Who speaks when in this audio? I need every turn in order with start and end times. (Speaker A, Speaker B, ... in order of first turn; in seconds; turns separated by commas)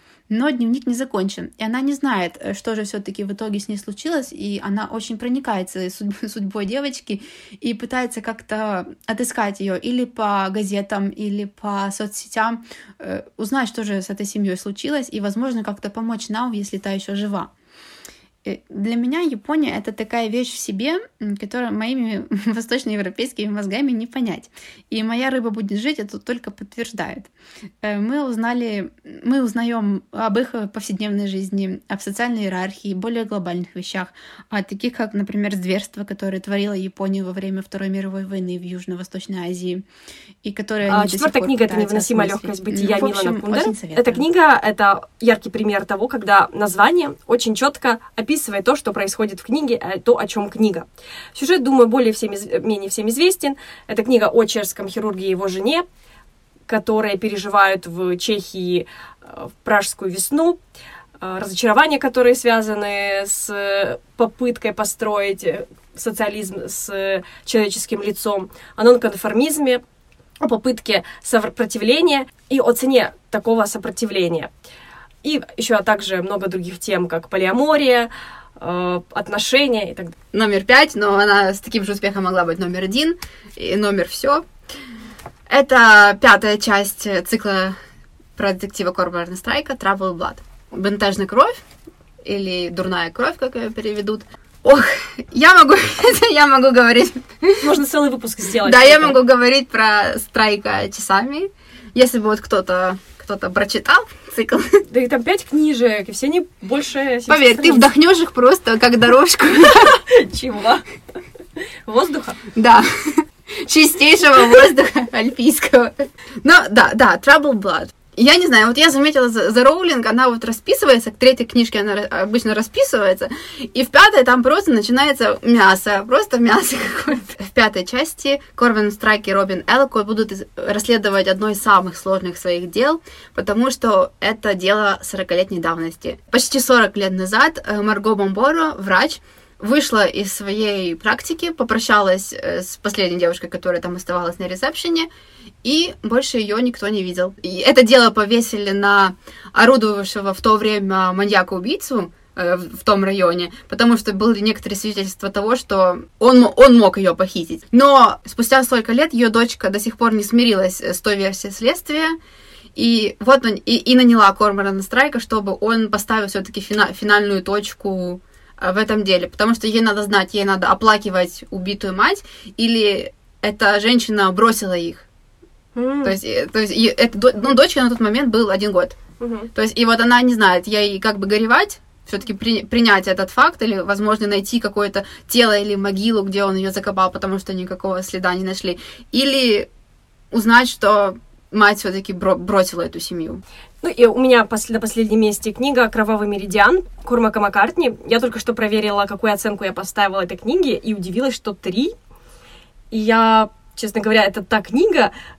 Speaker A: 0.3-17.5, Speaker A: 18.4-27.3, Speaker A: 27.8-39.8, Speaker A: 40.4-44.2, Speaker B: 40.9-55.8, Speaker B: 56.7-60.6, Speaker B: 61.2-69.8, Speaker B: 70.4-74.5, Speaker B: 75.2-80.2, Speaker A: 80.3-84.4, Speaker A: 85.5-87.8, Speaker A: 88.3-91.6, Speaker A: 92.2-97.6, Speaker B: 97.6-99.2, Speaker A: 98.6-104.8, Speaker B: 104.9-107.9, Speaker A: 107.3-110.0, Speaker B: 109.6-110.8, Speaker B: 111.8-112.4, Speaker A: 112.5-145.1, Speaker A: 145.6-162.2, Speaker A: 162.7-175.1, Speaker B: 175.7-176.2, Speaker A: 176.0-179.0, Speaker B: 179.2-179.5, Speaker A: 179.5-189.7, Speaker A: 190.3-193.4, Speaker B: 193.8-201.9, Speaker B: 202.9-205.1